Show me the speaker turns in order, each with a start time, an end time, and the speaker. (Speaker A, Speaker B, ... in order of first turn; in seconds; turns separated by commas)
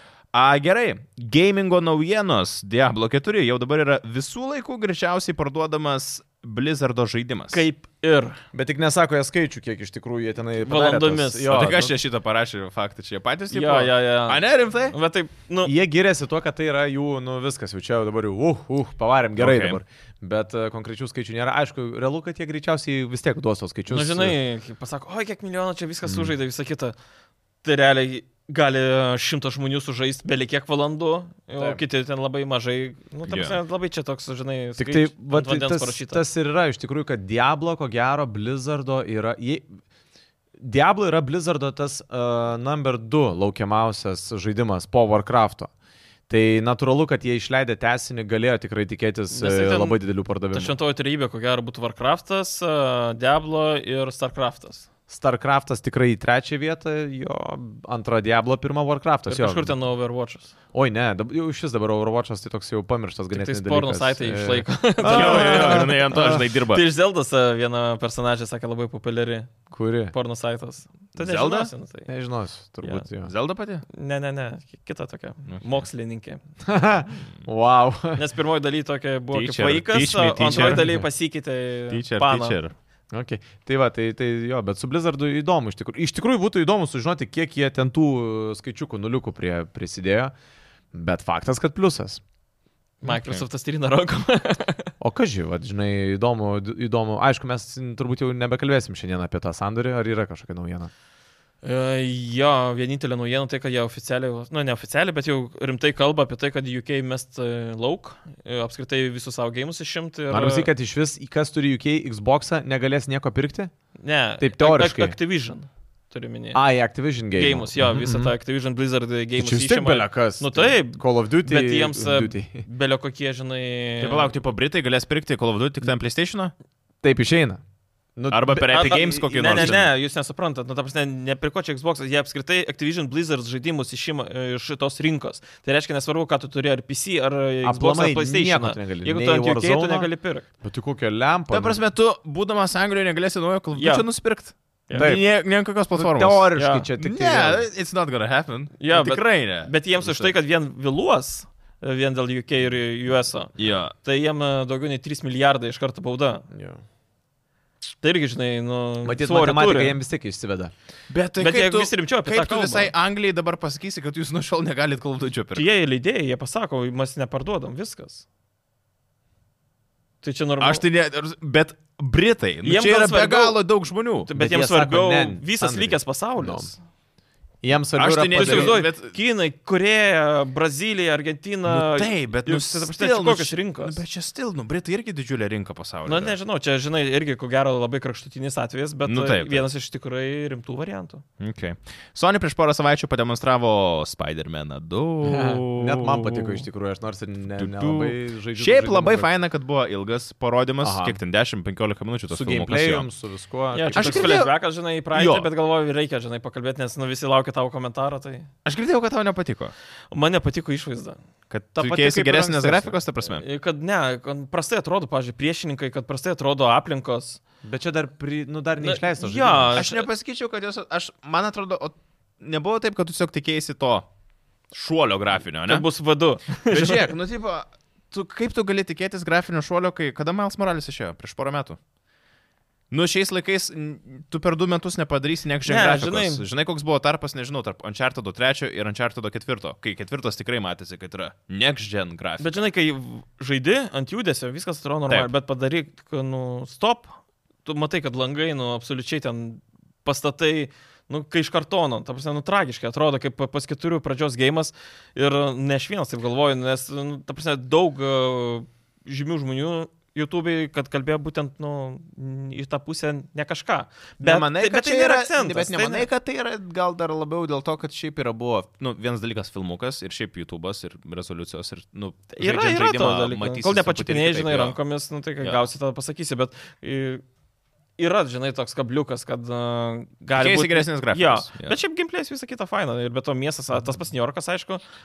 Speaker A: 0.3-7.6, Speaker B: 7.5-8.4, Speaker C: 8.5-11.9, Speaker B: 10.6-11.5, Speaker A: 11.5-15.0, Speaker B: 13.5-15.7, Speaker C: 15.6-24.4, Speaker A: 19.4-19.8, Speaker B: 23.9-26.9, Speaker C: 26.1-26.3, Speaker B: 27.6-36.2, Speaker A: 33.3-33.6, Speaker C: 34.8-39.7, Speaker C: 40.6-45.7, Speaker C: 46.3-50.7, Speaker B: 49.3-50.0, Speaker B: 50.5-54.9, Speaker C: 55.1-59.8, Speaker B: 59.3-60.5, Speaker C: 60.7-66.5, Speaker B: 63.3-69.6, Speaker A: 65.0-66.8, Speaker C: 69.7-70.1, Speaker B: 70.1-72.1, Speaker A: 71.2-71.7, Speaker C: 72.1-73.3, Speaker A: 73.3-73.8, Speaker B: 73.9-76.4, Speaker A: 75.5-75.8, Speaker C: 76.7-78.2, Speaker B: 78.2-82.6, Speaker A: 79.3-80.9, Speaker C: 80.5-81.0, Speaker A: 81.9-82.7, Speaker C: 83.1-90.3, Speaker C: 90.9-92.2, Speaker B: 93.0-94.9, Speaker A: 93.1-93.4, Speaker C: 95.0-100.9, Speaker B: 101.6-110.7, Speaker C: 110.3-113.7, Speaker B: 114.0-116.6, Speaker C: 114.4-115.2, Speaker C: 116.5-118.3, Speaker B: 117.3-124.3, Speaker C: 119.4-122.6, Speaker A: 124.0-126.5, Speaker C: 127.0-127.6, Speaker C: 128.2-129.8, Speaker A: 128.3-129.9, Speaker B: 128.7-140.5, Speaker C: 137.6-140.1, Speaker C: 140.6-141.8, Speaker A: 141.5-150.3, Speaker B: 143.7-144.1, Speaker C: 144.9-145.3, Speaker C: 145.9-147.6, Speaker B: 146.6-146.9, Speaker B: 148.8-156.5, Speaker A: 153.6-153.9, Speaker C: 156.5-156.8, Speaker B: 158.0-160.0, Speaker C: 159.0-160.7, Speaker A: 161.1-165.7, Speaker B: 161.4-162.9, Speaker B: 165.6-168.2, Speaker B: 170.2-170.8, Speaker A: 170.6-174.3, Speaker B: 172.6-173.6, Speaker B: 174.3-176.8, Speaker C: 174.3-176.7, Speaker C: 177.6-178.8, Speaker A: 177.9-179.2, Speaker B: 178.3-184.0, Speaker A: 181.7-186.3, Speaker B: 186.1-191.2, Speaker A: 189.1-189.7, Speaker A: 191.4-196.6, Speaker C: 195.2-199.3, Speaker A: 197.6-203.1, Speaker C: 200.8-201.2, Speaker C: 202.3-204.4, Speaker B: 203.7-208.5, Speaker A: 203.9-204.5, Speaker A: 205.1-205.5, Speaker A: 208.7-209.7, Speaker B: 210.1-211.2, Speaker A: 211.5-213.4, Speaker C: 211.8-213.0, Speaker B: 213.2-217.4, Speaker C: 217.6-219.8, Speaker B: 218.8-220.1, Speaker A: 219.8-224.1, Speaker A: 224.7-225.9, Speaker B: 225.7-227.1, Speaker A: 226.7-231.8, Speaker A: 232.9-242.6, Speaker B: 235.7-236.4, Speaker B: 242.4-266.1, Speaker A: 264.2-274.8, Speaker B: 272.3-277.2, Speaker B: 278.0-284.8, Speaker A: 280.3-281.8